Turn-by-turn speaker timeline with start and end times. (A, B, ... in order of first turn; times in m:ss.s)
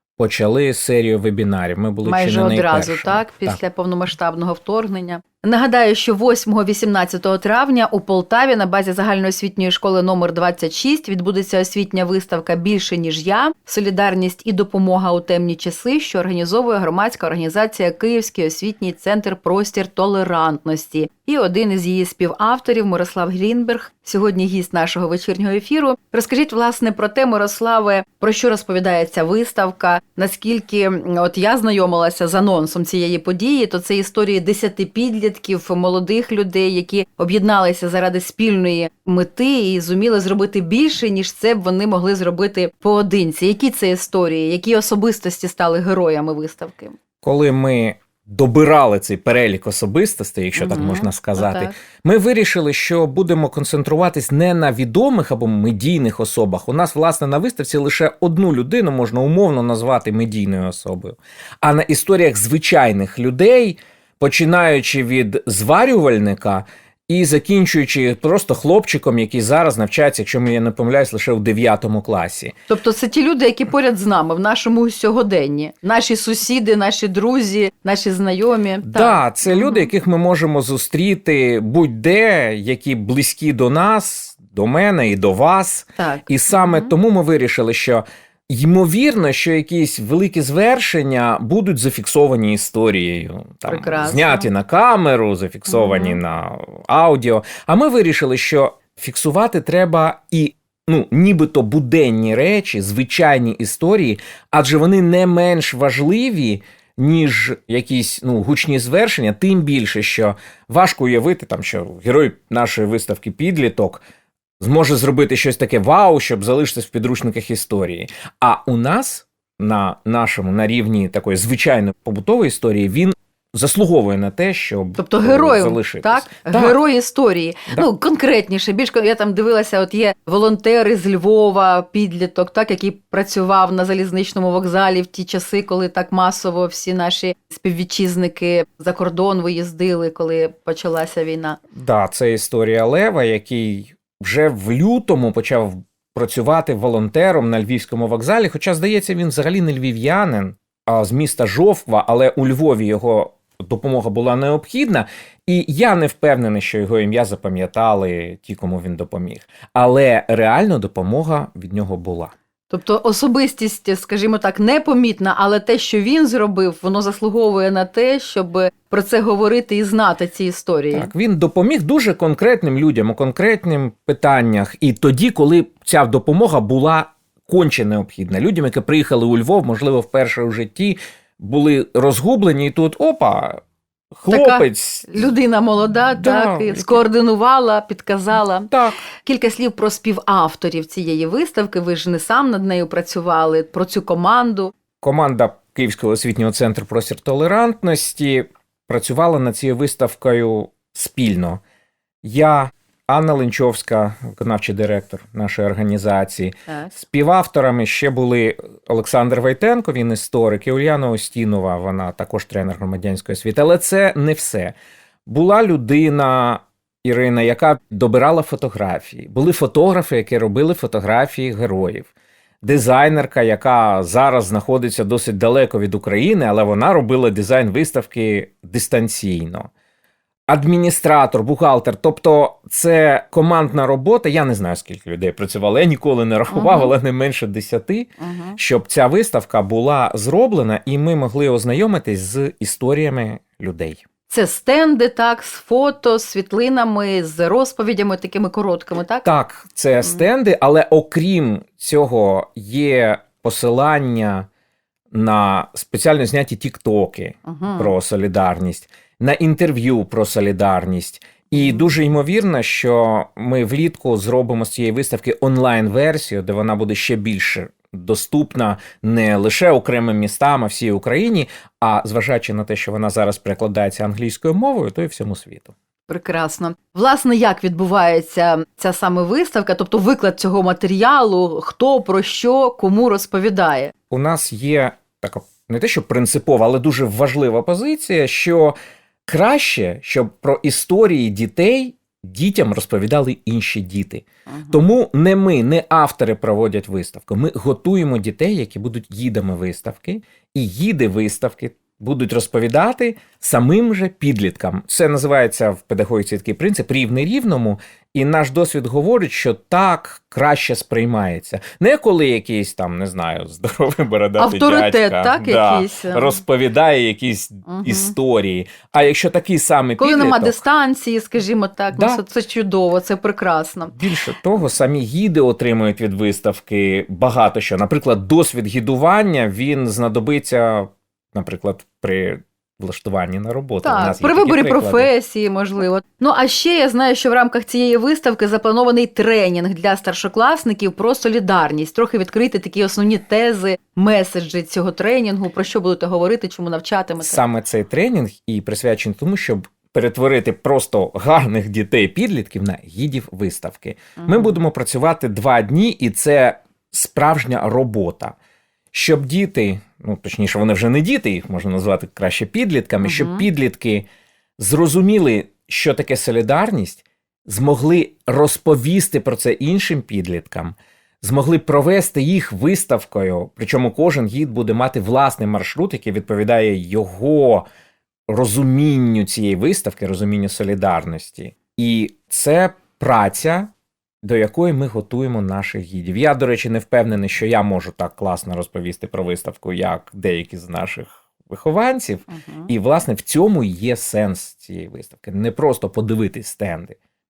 0:00.2-0:03.6 A
0:02.0-0:47.0 B
0:47.2-1:12.5 A
0:50.5-0:51.7 B
1:12.7-1:19.9 B
1:18.9-1:54.0 A
1:26.0-1:26.9 B
1:33.7-1:34.5 B
1:35.7-1:36.2 B
1:54.6-2:06.8 A
2:05.0-2:21.6 B
2:21.7-2:42.3 A
2:42.7-2:51.1 B
2:50.9-3:03.6 A
3:04.2-3:05.2 A
3:04.3-3:14.7 B
3:06.2-3:07.0 A
3:08.7-3:09.0 A
3:15.0-3:21.6 A
3:22.2-3:34.7 A
3:35.2-3:42.1 A
3:42.6-3:49.7 A
3:50.5-4:04.0 A
3:56.5-3:56.9 B
3:58.2-3:58.6 B
4:04.3-4:09.3 B
4:09.2-4:14.5 A
4:15.1-4:35.7 A
4:17.5-4:17.9 B
4:21.5-4:21.8 B
4:36.1-4:43.9 B
4:44.1-4:48.8 A
4:49.3-5:20.6 A
4:54.5-4:54.8 B
5:14.4-5:16.4 B
5:17.7-5:18.1 B
5:20.0-5:24.0 B
5:21.9-5:22.2 A
5:23.9-5:35.1 A
5:33.8-5:47.4 B
5:47.2-5:58.4 A
5:54.2-5:54.6 B
5:58.9-6:04.1 A
6:03.0-6:03.5 B
6:04.6-6:17.6 A
6:18.3-6:23.7 A
6:24.2-6:37.0 A
6:32.3-6:32.7 B